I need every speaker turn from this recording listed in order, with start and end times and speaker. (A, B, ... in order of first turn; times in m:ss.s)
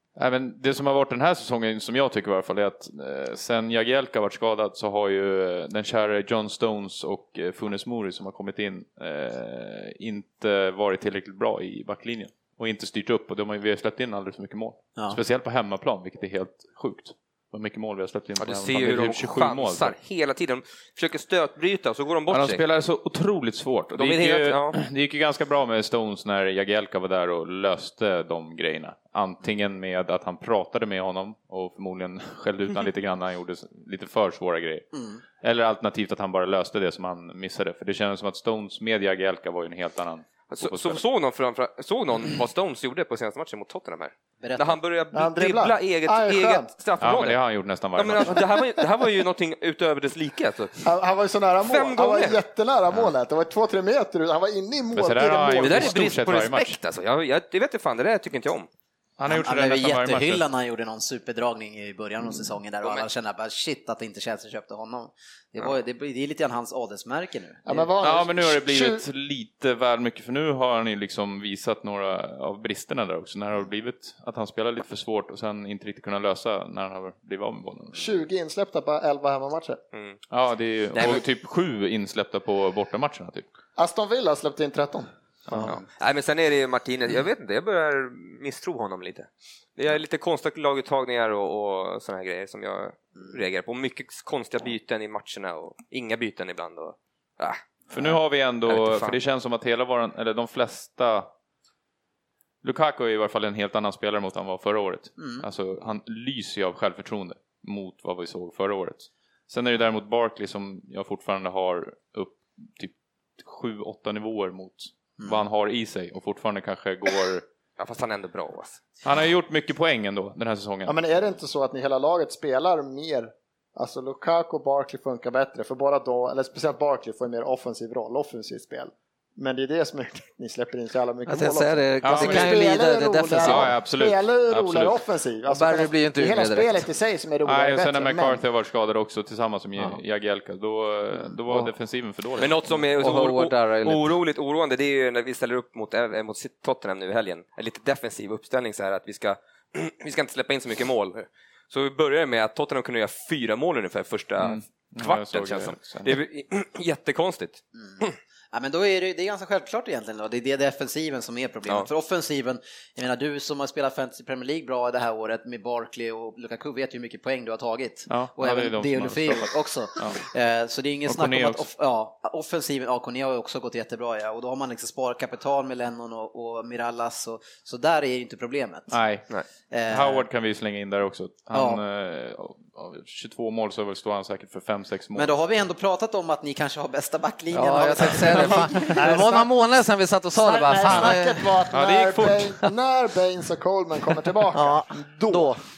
0:00.2-0:20.0 A
0:18.4-0:22.6 B
0:22.3-0:34.9 A
0:24.0-0:24.8 B
0:34.9-0:35.2 C
0:35.4-0:41.0 A
0:40.5-0:47.4 B
0:44.4-0:44.8 C
0:45.1-0:46.7 D
0:47.0-0:48.4 A
0:48.0-0:50.9 B
0:50.8-0:56.0 D
0:51.6-0:52.4 B
0:54.9-0:56.8 A
0:55.6-0:58.7 B
0:59.2-1:00.4 A
0:59.2-1:07.9 C
1:07.6-1:09.0 D
1:08.0-1:18.1 A
1:17.9-1:19.8 D
1:19.9-1:20.2 B
1:20.3-1:23.4 A
1:20.9-1:21.2 B
1:23.8-1:25.1 D
1:25.6-1:39.2 B
1:37.9-1:41.3 A
1:42.6-1:57.4 A
1:45.2-1:45.4 C
1:57.8-1:58.8 B
1:59.0-2:00.9 A
2:00.8-2:18.4 D
2:11.3-2:13.7 E
2:12.0-2:12.6 A
2:13.4-2:15.0 A
2:15.5-2:16.7 E
2:17.4-2:22.6 A
2:22.4-2:38.1 B
2:22.9-2:24.2 E
2:34.4-2:36.2 A
2:37.8-2:59.0 C
2:48.1-2:50.2 A
2:51.0-2:51.6 A
2:58.9-2:59.2 A
2:59.7-3:00.2 C
2:59.9-3:05.3 A
3:01.5-3:01.8 C
3:05.1-3:09.0 C
3:07.5-3:11.5 E
3:08.8-3:09.6 D
3:10.3-3:15.6 D
3:11.7-3:12.6 A
3:14.5-3:15.6 E